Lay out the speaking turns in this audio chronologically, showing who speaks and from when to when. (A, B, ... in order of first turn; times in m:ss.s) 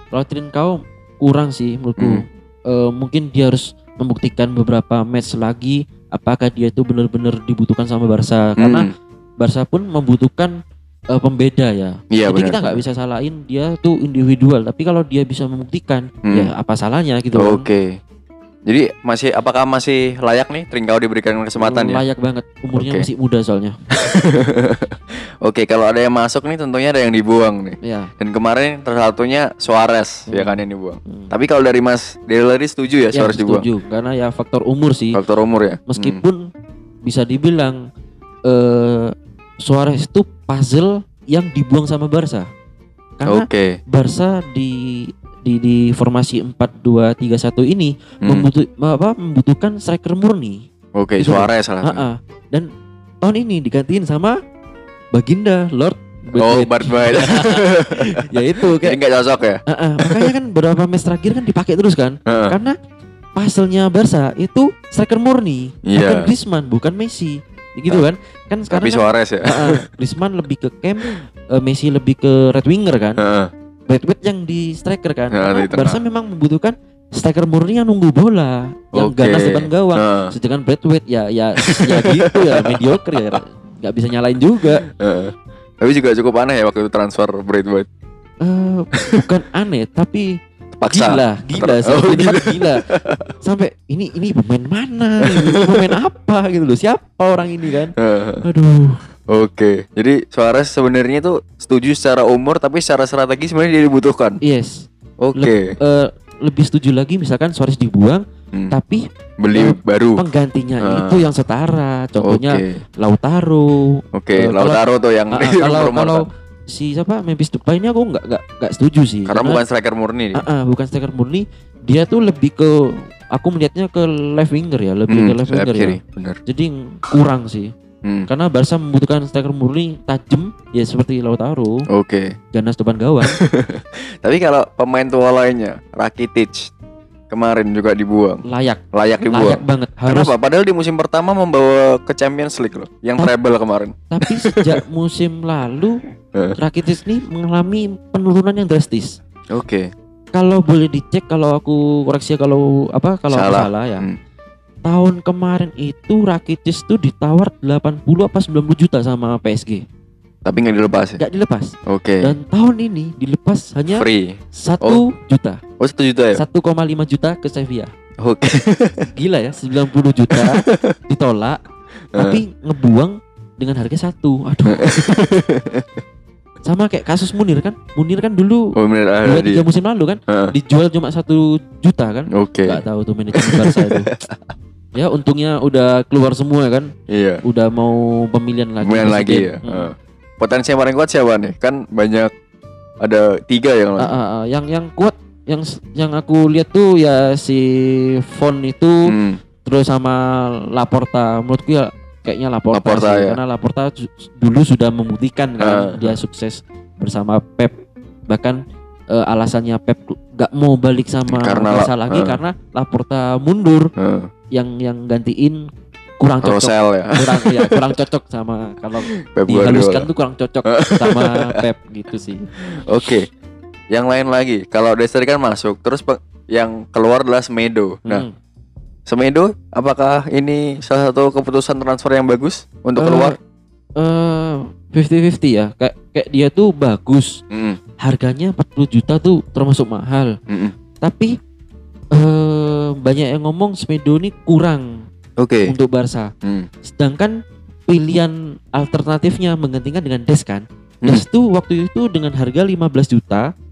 0:00.1-0:08.9 A
0:02.0-0:02.2 B
0:08.6-0:08.9 B
0:09.4-0:10.5 A
0:11.1-0:17.7 A
0:12.1-0:12.8 B
0:17.4-0:18.0 B
0:18.7-0:22.0 B
0:21.6-0:23.8 A
0:22.7-0:23.0 B
0:23.9-0:33.6 B
0:27.8-0:28.1 A
0:30.3-0:31.3 A
0:33.1-0:35.2 A
0:35.1-0:36.2 B
0:35.9-0:36.4 A
0:37.0-0:37.8 A
0:38.5-0:42.5 A
0:43.2-0:50.7 A
0:43.3-0:43.8 B
0:48.2-0:48.5 B
0:51.0-0:52.0 B
0:51.2-0:52.7 A
0:53.2-0:54.4 A
0:55.1-0:59.0 A
0:56.4-1:00.3 B
0:59.7-1:02.8 A
1:02.3-1:02.5 B
1:03.4-1:13.2 A
1:05.9-1:06.3 B
1:08.7-1:09.8 B
1:13.2-1:13.5 B
1:13.9-1:24.8 A
1:15.3-1:16.0 B
1:18.9-1:20.3 B
1:21.7-1:23.4 B
1:24.8-1:27.9 B
1:28.4-1:30.3 A
1:28.9-1:29.2 B
1:30.7-1:33.3 B
1:30.9-1:32.8 A
1:33.4-1:39.0 A
1:35.3-1:35.9 B
1:38.0-1:38.4 B
1:39.3-1:44.4 B
1:44.4-1:54.8 A
1:45.2-1:45.7 B
1:49.4-1:50.2 B
1:50.8-1:51.3 B
1:52.2-1:52.8 B
1:54.1-1:56.3 B
1:55.3-1:59.6 A
1:59.3-2:00.4 B
2:00.3-2:07.7 A
2:05.1-2:06.4 B
2:08.3-2:11.9 A
2:11.9-2:12.3 B
2:12.5-2:13.4 A
2:13.3-2:16.7 B
2:17.3-2:24.8 B
2:18.4-2:20.3 A
2:24.1-2:26.0 A
2:26.6-2:29.2 A
2:29.5-2:29.9 B
2:30.3-2:34.0 A
2:33.3-2:34.2 B
2:34.8-2:39.8 A
2:40.4-2:41.2 B
2:41.2-2:45.6 A
2:41.8-2:42.3 B
2:43.9-2:45.0 B
2:45.8-2:46.4 B
2:46.3-2:47.9 A
2:48.2-2:49.1 B
2:49.1-2:51.6 A
2:50.3-2:51.0 B
2:52.1-2:52.4 B
2:52.2-2:54.9 A
2:54.7-2:55.8 B
2:56.6-2:58.7 A
2:58.8-2:59.6 B
2:59.2-3:04.1 A
3:02.3-3:02.8 B
3:03.3-3:04.5 B
3:04.9-3:06.9 A
3:07.1-3:07.4 B
3:07.4-3:09.9 A
3:08.8-3:12.3 B
3:13.0-3:14.1 B
3:14.0-3:19.1 A
3:19.1-3:19.4 B
3:19.6-3:20.2 A
3:20.7-3:27.8 A
3:22.7-3:23.4 B
3:25.6-3:26.2 B
3:28.3-3:28.6 A
3:29.1-3:33.9 A
3:31.3-3:32.4 B
3:34.0-3:34.3 B
3:34.5-3:35.7 A
3:36.2-3:42.5 A
3:36.4-3:38.0 B
3:39.1-3:40.1 B
3:40.6-3:41.6 B
3:42.6-3:43.3 B
3:43.9-3:48.2 B
3:48.0-3:48.3 A
3:49.1-3:53.4 B
3:53.0-3:53.3 A
3:54.0-3:57.4 A
3:57.5-3:57.8 B
3:58.0-4:00.3 A
4:00.5-4:00.7 B
4:01.0-4:01.3 A
4:02.1-4:04.9 A
4:05.4-4:05.7 B
4:05.6-4:06.3 A
4:06.8-4:07.3 A
4:07.9-4:13.5 A